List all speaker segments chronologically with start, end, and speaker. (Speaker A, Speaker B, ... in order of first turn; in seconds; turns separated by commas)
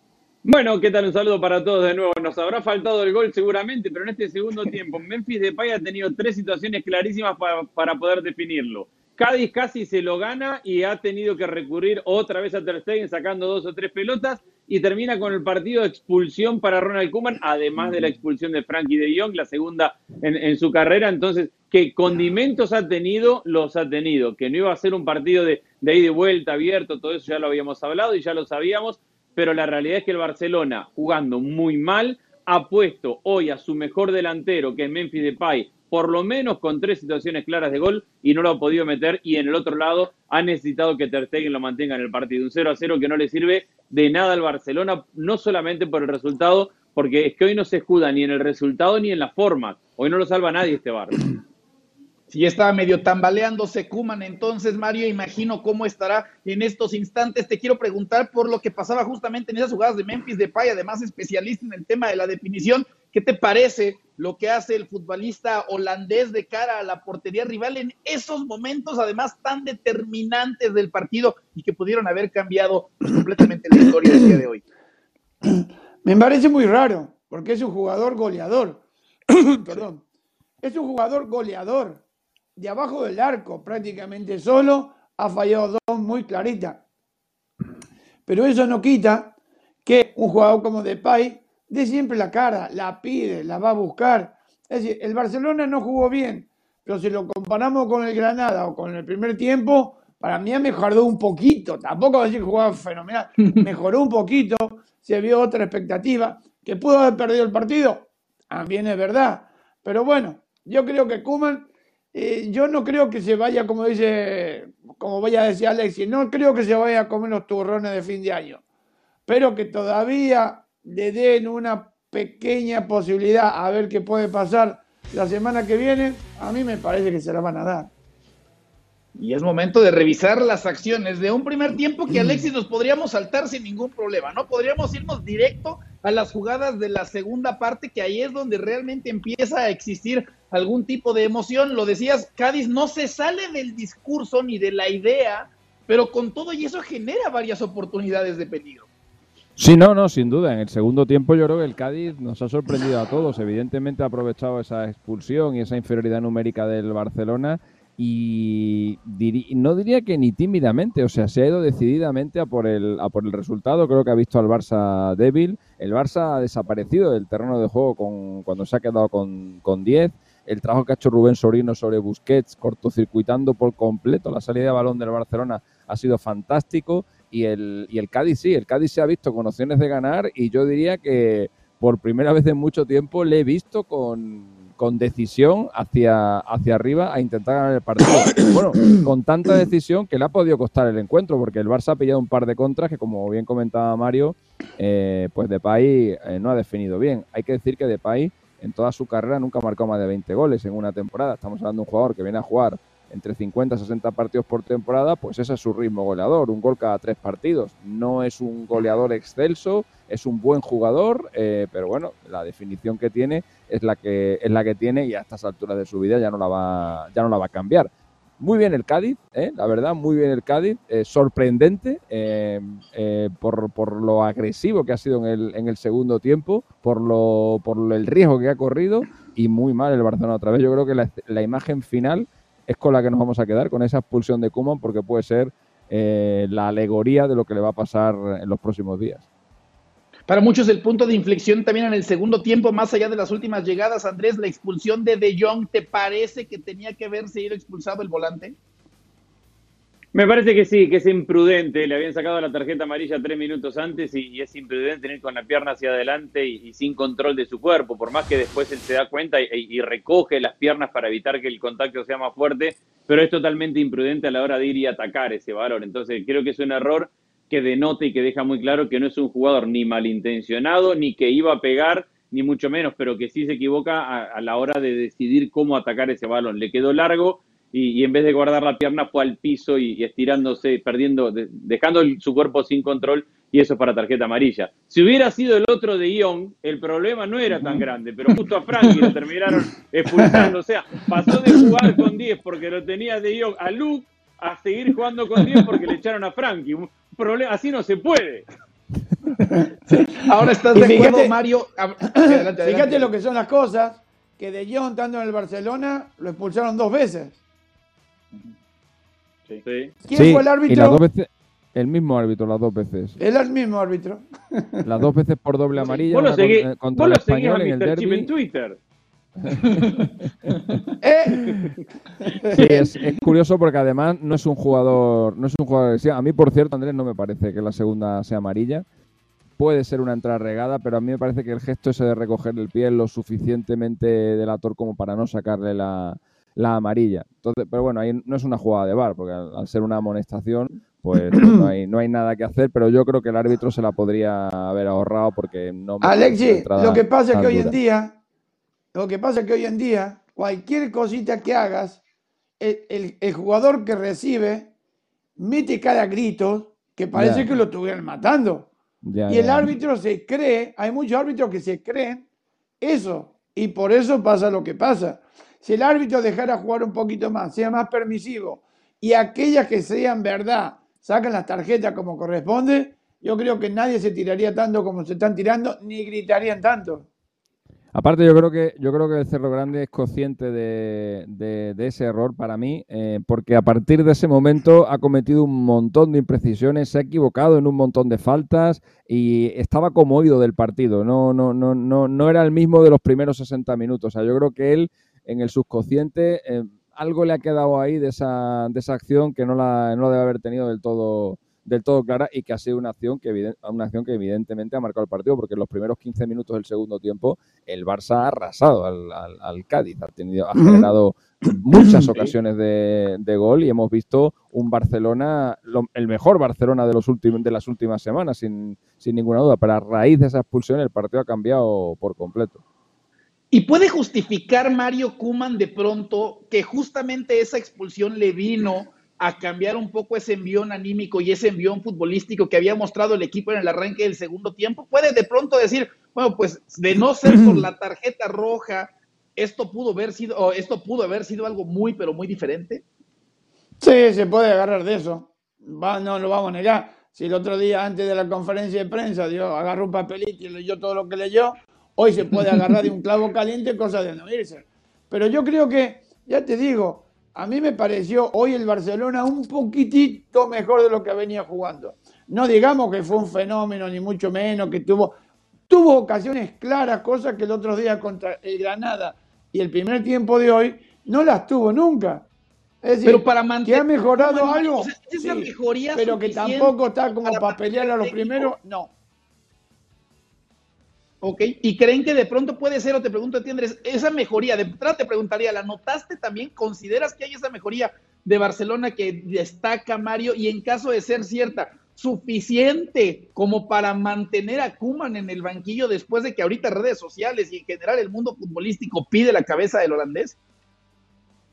Speaker A: 0.4-51.1, Speaker B: 52.3-74.6, Speaker C: 74.0-74.3, Speaker C: 75.4-80.0, Speaker C: 80.6-82.0, Speaker C: 82.5-86.8, Speaker C: 88.3-118.6, Speaker C: 119.3-127.9, Speaker B: 129.2-148.9, Speaker D: 149.6-239.2, Speaker B: 240.3-248.6, Speaker A: 250.1-298.5, Speaker B: 299.4-303.1, Speaker C: 299.5-301.3, Speaker C: 302.1-307.4, Speaker A: 309.6-309.9, Speaker C: 310.0-311.0, Speaker D: 310.1-313.2, Speaker C: 313.2-314.8, Speaker D: 314.8-318.3, Speaker A: 316.1-318.8, Speaker D: 319.4-319.9, Speaker C: 321.0-321.7, Speaker C: 322.2-322.9, Speaker D: 322.5-328.9, Speaker D: 329.6-347.8, Speaker C: 341.3-341.7, Speaker C: 346.0-348.2, Speaker C: 348.9-352.0, Speaker C: 352.6-354.7, Speaker C: 355.4-358.7, Speaker D: 357.1-357.5, Speaker D: 359.0-359.7, Speaker C: 359.3-362.2, Speaker C: 362.8-377.1, Speaker D: 377.9-422.6, Speaker C: 410.5-410.9, Speaker C: 411.7-412.1, Speaker B: 423.5-442.8, Speaker C: 437.2-437.6, Speaker C: 443.8-465.1, Speaker C: 465.7-472.2, Speaker C: 472.8-478.9, Speaker B: 473.0-478.5, Speaker B: 481.2-500.4